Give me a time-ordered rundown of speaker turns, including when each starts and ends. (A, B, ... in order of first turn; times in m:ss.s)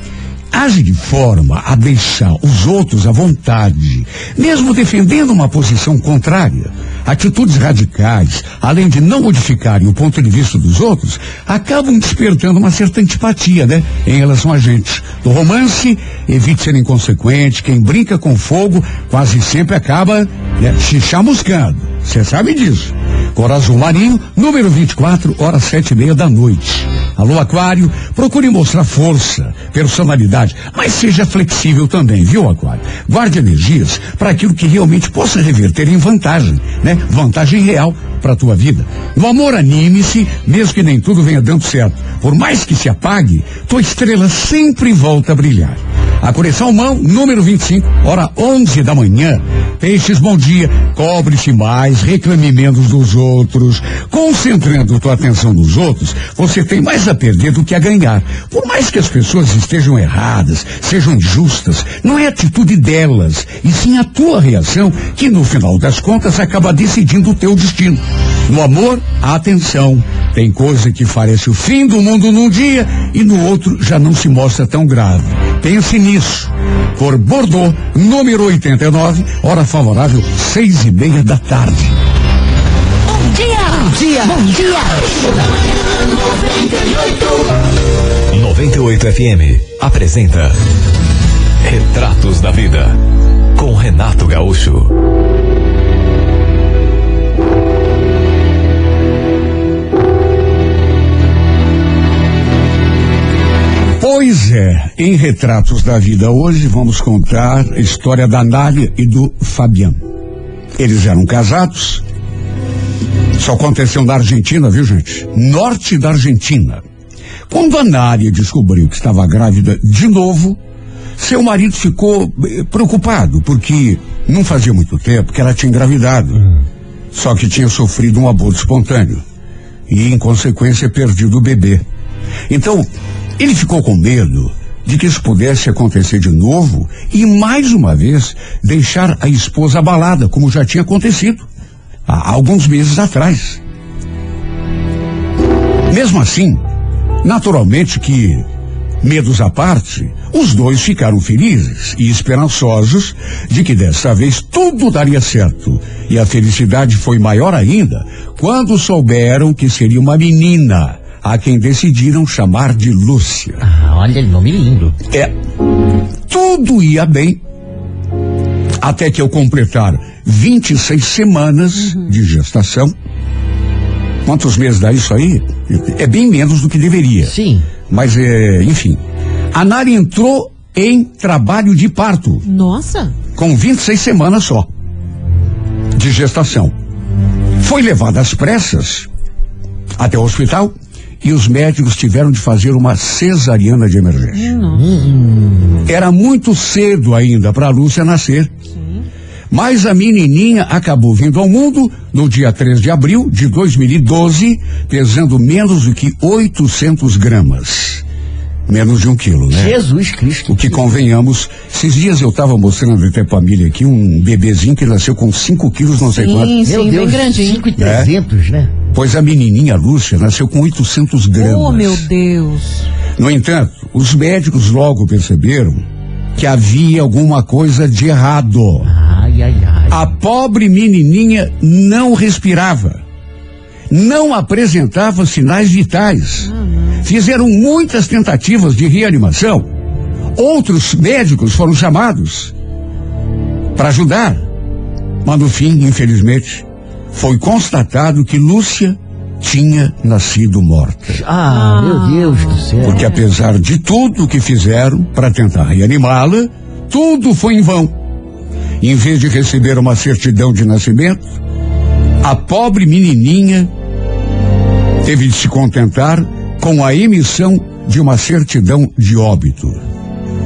0:00.5-1:22.0 A
1:23.3-1:27.3 B
1:23.9-1:24.9 C
1:28.3-1:30.6 D
1:31.6-1:33.0 D
1:33.6-1:34.9 D
1:44.0-1:50.0 A
1:50.8-1:52.0 A
1:53.4-1:56.8 A
1:57.5-2:00.6 A
2:01.2-2:06.5 A
2:07.1-2:09.2 A
2:09.9-2:11.8 A
2:12.5-2:21.5 A
2:22.1-2:23.6 A
2:25.9-2:26.6 A
2:27.2-2:28.5 A
2:29.0-2:43.7 A
2:43.6-2:45.0 C
2:46.3-2:47.4 A
2:48.8-2:52.9 A
2:54.2-2:57.4 A
2:57.2-2:57.7 C
2:57.9-2:59.0 A
2:59.5-3:02.4 A
3:02.4-3:03.2 E
3:03.4-3:04.7 A
3:06.0-3:06.7 A
3:07.6-3:09.1 A
3:10.0-3:14.6 A
3:14.3-3:15.0 E
3:14.7-3:15.9 C
3:15.9-3:18.5 A
3:19.5-3:28.0 A
3:28.7-3:29.8 A
3:29.5-3:30.9 C
3:30.5-3:36.6 A
3:36.1-3:37.7 E
3:36.6-3:38.7 C
3:37.8-3:38.1 A
3:38.9-3:42.1 A
3:41.4-3:42.8 E
3:43.2-3:45.8 A
3:46.4-3:48.9 A
3:48.8-3:50.1 C
3:49.9-3:53.0 A
3:53.9-3:56.5 A
3:56.4-3:57.1 E
3:57.0-3:59.7 A
4:00.4-4:02.5 A
4:03.8-4:04.4 A
4:05.2-4:11.2 A
4:11.1-4:13.1 C
4:11.5-4:13.0 E
4:12.8-4:18.0 A
4:18.8-4:21.3 A
4:22.2-4:23.7 A
4:25.0-4:29.8 A